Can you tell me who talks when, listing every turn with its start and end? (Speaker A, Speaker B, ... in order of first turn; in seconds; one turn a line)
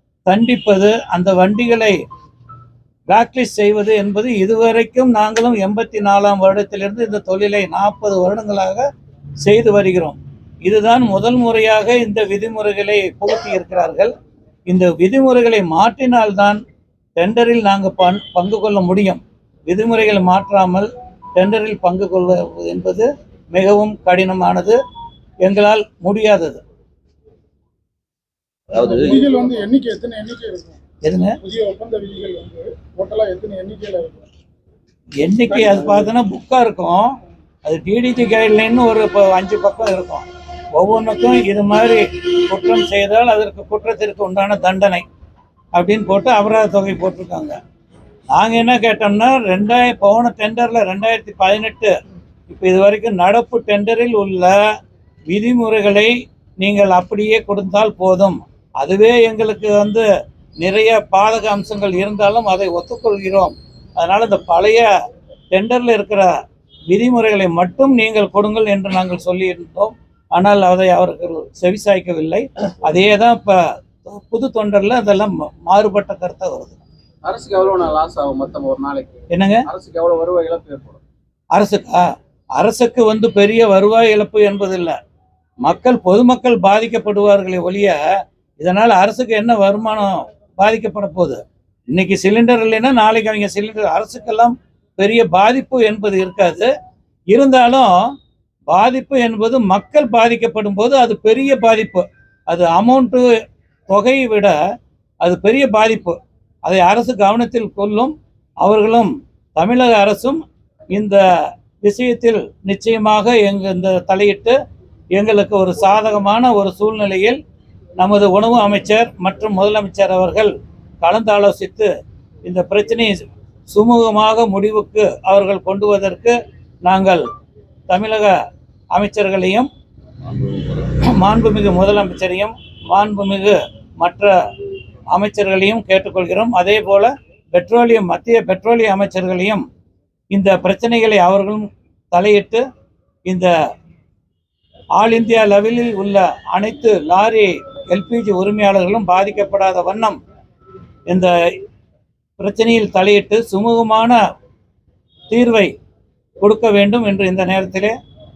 Speaker A: 0.3-2.0
Speaker A: 3.1-8.8
Speaker A: 9.4-14.1
Speaker A: 14.7-16.6
Speaker A: 17.2-24.8
Speaker A: 25.4-26.6
Speaker B: 28.7-30.8
Speaker A: 31.0-31.4
Speaker B: 31.4-34.3
Speaker A: 35.2-37.1
Speaker A: 37.6-45.0
Speaker A: 45.8-47.6
Speaker A: 48.3-51.9
Speaker A: 52.5-54.5
Speaker A: 55.3-60.0
Speaker A: 60.6-64.9
Speaker A: 65.5-66.3
Speaker A: 66.9-76.8
Speaker C: 77.2-79.1
Speaker A: 79.3-79.7
Speaker C: 79.7-81.0
Speaker A: 81.5-85.0
Speaker A: 85.6-88.0
Speaker A: 88.6-91.4
Speaker A: 91.9-96.7
Speaker A: 97.3-97.9
Speaker A: 98.7-103.3
Speaker A: 103.9-104.5
Speaker A: 105.2-110.4
Speaker A: 110.9-111.2
Speaker A: 111.8-114.6
Speaker A: 115.2-117.4
Speaker A: 118.0-121.9
Speaker A: 122.5-123.1
Speaker A: 123.7-127.2
Speaker A: 127.9-128.3
Speaker A: 128.9-129.7
Speaker A: 130.8-134.3
Speaker A: 135.1-139.6
Speaker A: 140.3-142.6
Speaker A: 145.0-150.2
Speaker A: 152.4-154.2
Speaker A: 155.3-155.7
Speaker A: 156.4-158.0